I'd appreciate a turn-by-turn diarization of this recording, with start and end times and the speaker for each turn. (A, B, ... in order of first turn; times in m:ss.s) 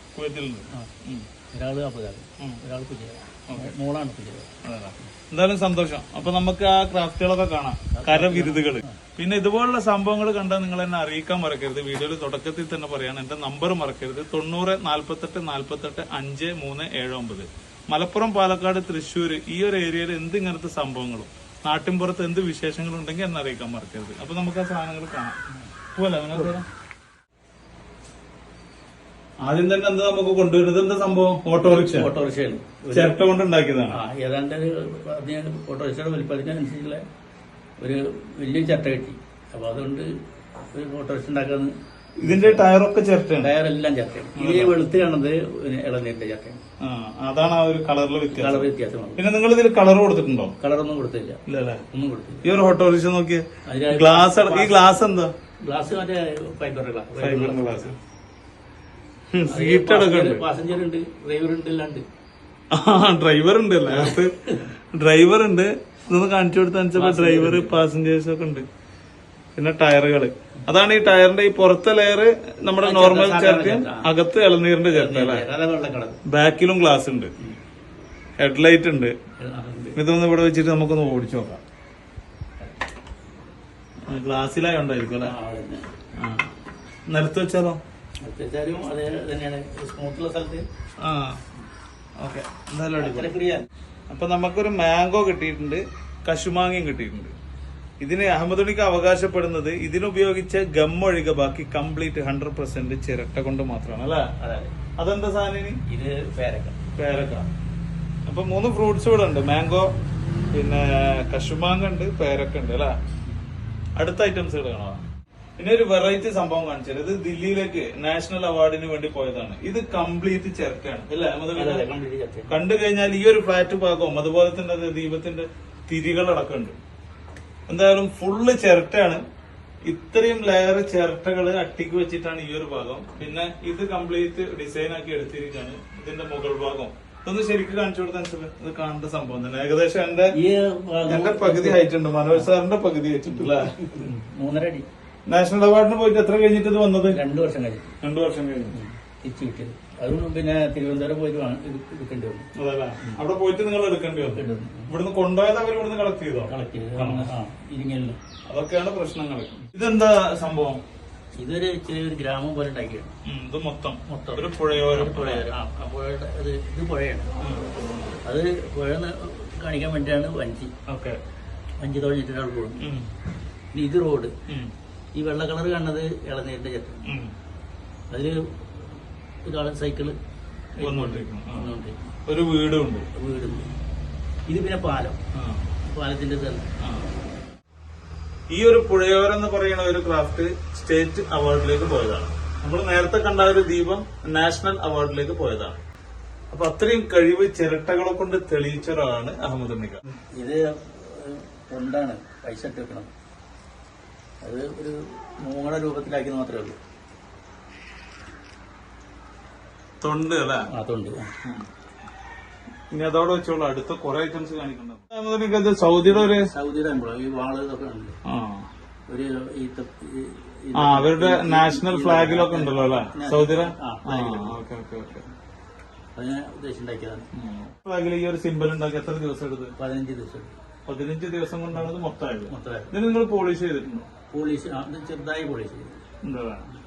0:00.2-0:01.3 A
0:01.5-0:05.1 B
0:03.5-0:03.7 A
0:04.6-0:25.4 A
0:08.0-0:09.0 B
0:26.0-0:26.7 A
0:26.3-0:26.6 B
0:29.4-0:32.1 A
0:31.6-0:33.2 B
0:32.9-0:34.0 A
0:33.9-0:37.0 B
0:37.8-0:40.1 B
0:40.7-0:42.7 B
0:42.2-0:43.5 A
0:43.4-0:46.6 B
0:44.4-0:44.8 A
0:46.8-0:50.6 A
0:48.3-0:49.2 B
0:50.6-0:52.7 B
0:51.5-0:51.8 A
0:52.4-0:55.3 A
0:53.7-0:55.0 B
0:55.6-0:58.0 B
0:57.2-0:58.0 A
0:59.3-1:00.4 A
0:59.5-1:02.0 B
1:02.7-1:08.7 A
1:03.9-1:04.6 B
1:06.9-1:07.8 B
1:09.6-1:15.4 A
1:12.8-1:14.1 B
1:14.8-1:16.2 B
1:16.3-1:17.3 A
1:18.4-1:19.2 A
1:19.4-1:20.0 B
1:20.0-1:21.6 A
1:24.1-1:25.3 A
1:25.2-1:25.9 B
1:26.2-1:26.5 A
1:27.1-1:27.8 A
1:28.2-1:30.6 B
1:31.0-1:31.4 A
1:32.2-1:33.3 A
1:33.0-1:33.7 B
1:34.1-1:37.3 A
1:38.0-1:44.3 A
1:44.4-1:44.8 B
1:45.0-1:45.8 A
1:45.9-1:46.8 B
1:46.9-1:47.5 A
1:48.3-1:49.9 A
1:50.5-1:53.0 A
1:54.0-1:55.0 A
1:55.6-2:01.8 A
2:01.5-2:02.6 B
2:02.5-2:06.8 A
2:07.7-2:09.2 A
2:09.8-2:20.3 A
2:20.3-2:22.5 B
2:21.1-2:24.1 A
2:23.4-2:24.9 B
2:25.3-2:27.2 A
2:27.1-2:27.9 B
2:28.0-2:28.8 A
2:28.7-2:32.5 B
2:32.6-2:37.3 A
2:34.2-2:34.9 B
2:36.5-2:38.2 B
2:38.5-2:40.8 A
2:41.4-2:43.1 B
2:43.3-2:45.5 A
2:44.1-2:47.3 B
2:47.4-2:48.2 A
2:48.2-2:50.7 B
2:50.9-2:51.2 A
2:51.8-2:52.8 B
2:52.8-2:53.1 A
2:53.7-2:54.3 B
2:54.5-2:54.7 A
2:55.2-2:57.1 B
2:57.1-2:57.3 A
2:58.1-3:00.2 B
3:00.8-3:02.0 B
3:00.8-3:01.7 A
3:02.3-3:03.1 A
3:03.2-3:03.7 B
3:04.5-3:05.2 B
3:05.4-3:05.6 A
3:05.8-3:06.7 B
3:06.8-3:07.1 A
3:08.5-3:15.8 A
3:16.5-3:20.1 A
3:20.4-3:23.1 B
3:24.4-3:26.8 B
3:30.0-3:30.7 A
3:30.7-3:31.3 B
3:32.9-3:36.5 A
3:36.0-3:38.2 B
3:38.3-3:38.7 A
3:39.1-3:44.6 B
3:40.8-3:45.3 A
3:46.2-3:47.3 B
3:47.4-3:49.7 A
3:49.8-3:50.5 B
3:50.9-3:54.1 A
3:52.5-3:53.0 B
3:54.3-3:56.0 B
3:56.2-3:56.7 A